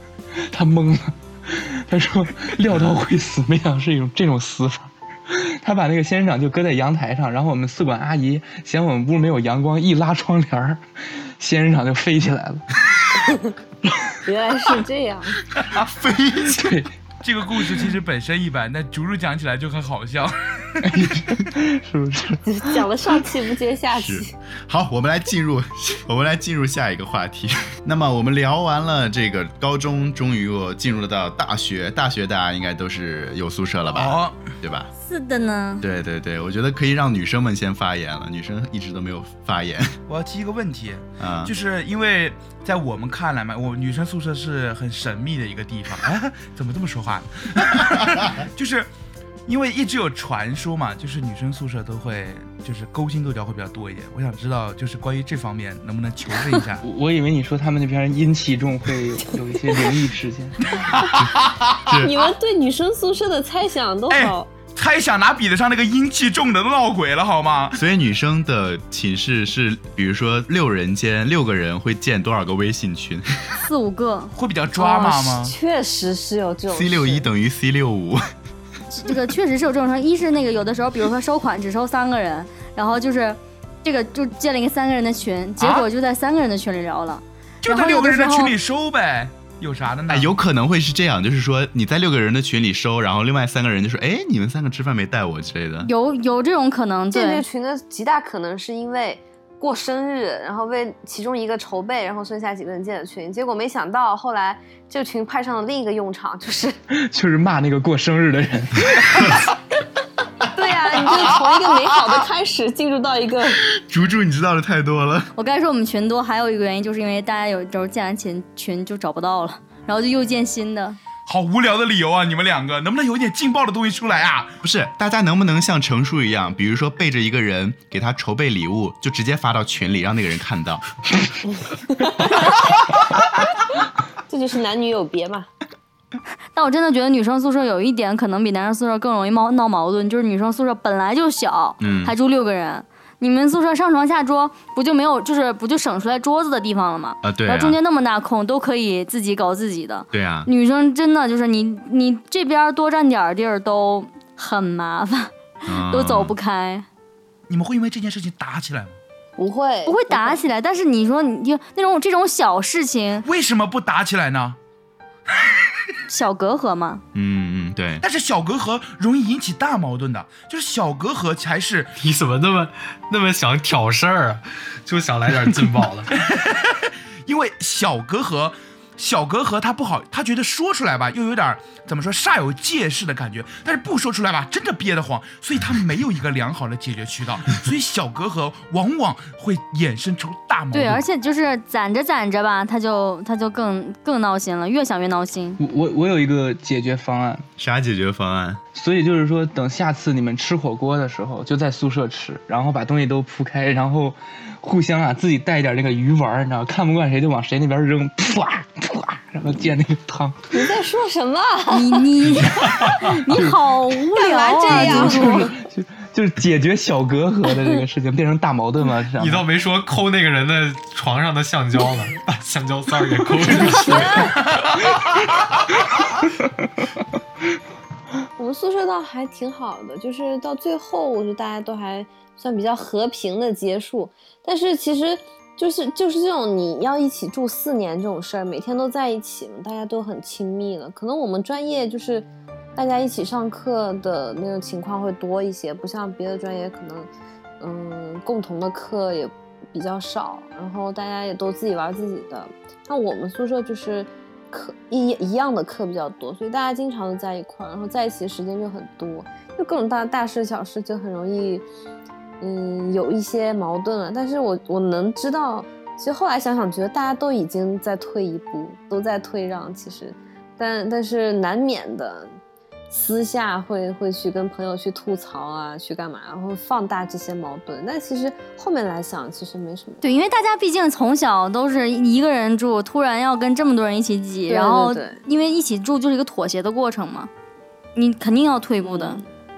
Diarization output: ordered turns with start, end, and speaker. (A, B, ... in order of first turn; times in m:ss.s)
0:00.3-0:10.8 A
0:11.4-0:12.7 A
0:13.2-0:13.5 B
0:14.2-0:15.4 B
0:15.7-0:16.8 C
0:16.4-0:16.9 A
0:17.2-0:21.0 D
0:20.8-0:22.8 A
0:22.5-0:24.3 B
0:23.9-0:34.9 C
0:33.9-0:34.4 D
0:35.0-0:35.8 E
0:35.8-0:40.0 C
0:40.1-0:48.9 D
0:41.2-0:41.5 C
0:49.5-0:56.8 D
0:56.8-1:00.6 A
1:00.7-1:01.9 D
1:01.9-1:02.2 C
1:02.0-1:04.5 B
1:04.1-1:07.8 D
1:07.8-1:13.6 C
1:13.6-1:14.3 E
1:14.3-1:15.6 D
1:14.8-1:17.3 B
1:16.7-1:18.2 C
1:18.9-1:28.6 E
1:25.6-1:25.9 D
1:27.6-1:30.4 D
1:30.1-1:35.9 C
1:35.8-1:37.4 E
1:37.1-1:46.8 B
1:46.9-1:49.3 A
1:50.5-1:53.6 B
1:53.7-1:55.3 C
1:55.4-2:01.0 E
2:01.3-2:04.5 D
2:04.6-2:10.9 C
2:12.0-2:12.6 B
2:14.3-2:15.5 B
2:16.5-2:36.9 E
2:21.8-2:22.2 C
2:27.2-2:27.8 C
2:30.1-2:30.5 C
2:35.7-2:36.4 C
2:37.5-2:39.0 D
2:39.4-2:40.4 B
2:39.9-2:43.3 E
2:43.2-2:44.6 D
2:46.1-2:47.0 E
2:47.1-2:48.0 C
2:48.0-2:51.9 D
2:52.0-2:56.1 F
2:56.1-3:11.0 D
3:10.7-3:15.6 E
3:15.6-3:17.5 A
3:17.6-3:18.6 C
3:18.7-3:30.7 A
3:30.5-3:32.3 B
3:31.7-3:35.5 E
3:32.9-3:33.1 F
3:33.3-3:33.6 A
3:34.2-3:35.5 B
3:34.6-3:39.5 A
3:39.2-3:44.4 F
3:43.5-3:44.4 B
3:44.4-3:45.4 D
3:46.4-3:46.7 A
3:48.4-4:07.1 B
4:07.6-4:21.7 B
4:22.4-4:32.3 B
4:32.9-4:40.0 B
4:40.0-4:47.3 E
4:44.5-4:45.2 B
4:48.0-4:49.2 E
4:48.8-4:49.3 B